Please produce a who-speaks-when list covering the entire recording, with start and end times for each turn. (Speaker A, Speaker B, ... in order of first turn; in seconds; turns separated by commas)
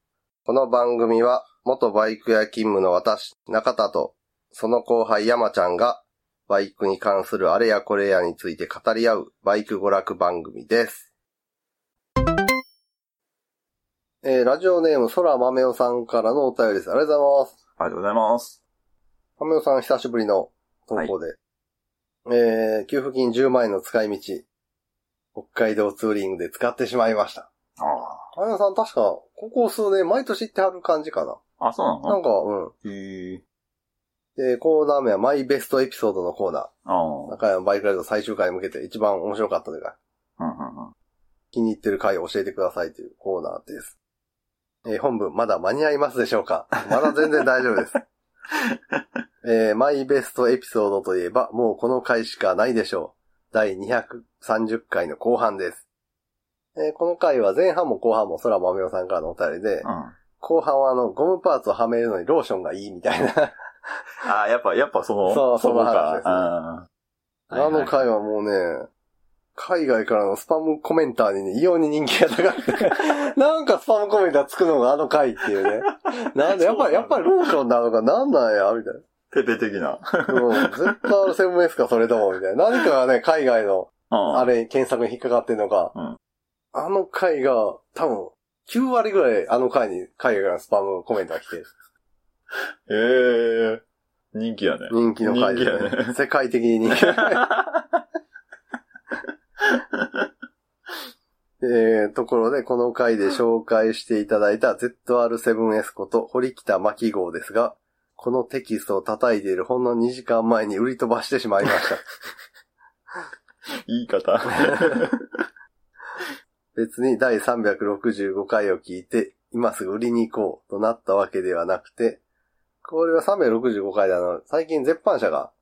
Speaker A: 0.5-11.1, Speaker A: 14.2-17.6, Speaker B: 17.8-18.6, Speaker A: 19.4-21.4, Speaker A: 22.2-24.4, Speaker A: 25.3-27.5, Speaker B: 27.8-28.3, Speaker A: 28.3-31.4, Speaker B: 31.6-32.2, Speaker A: 32.0-32.7, Speaker B: 32.8-33.4, Speaker A: 34.4-36.7, Speaker B: 36.9-37.4, Speaker A: 37.3-40.0, Speaker B: 40.4-40.9, Speaker A: 41.5-44.0, Speaker A: 44.8-48.0, Speaker B: 48.7-49.0, Speaker A: 49.4-55.8, Speaker A: 56.8-59.9, Speaker B: 59.8-60.2, Speaker A: 60.4-63.5, Speaker B: 64.2-66.9, Speaker A: 65.3-66.5, Speaker A: 67.5-68.9, Speaker B: 67.5-68.0, Speaker A: 69.5-79.0, Speaker B: 76.4-77.3, Speaker B: 79.3-81.1, Speaker A: 80.3-85.9, Speaker B: 84.1-84.5, Speaker A: 86.7-91.7, Speaker B: 92.9-96.1, Speaker A: 94.9-97.5, Speaker B: 96.9-98.0, Speaker B: 99.6-100.3, Speaker A: 101.6-112.0, Speaker B: 113.8-115.4, Speaker A: 114.7-115.0, Speaker A: 116.7-122.2, Speaker A: 122.8-125.5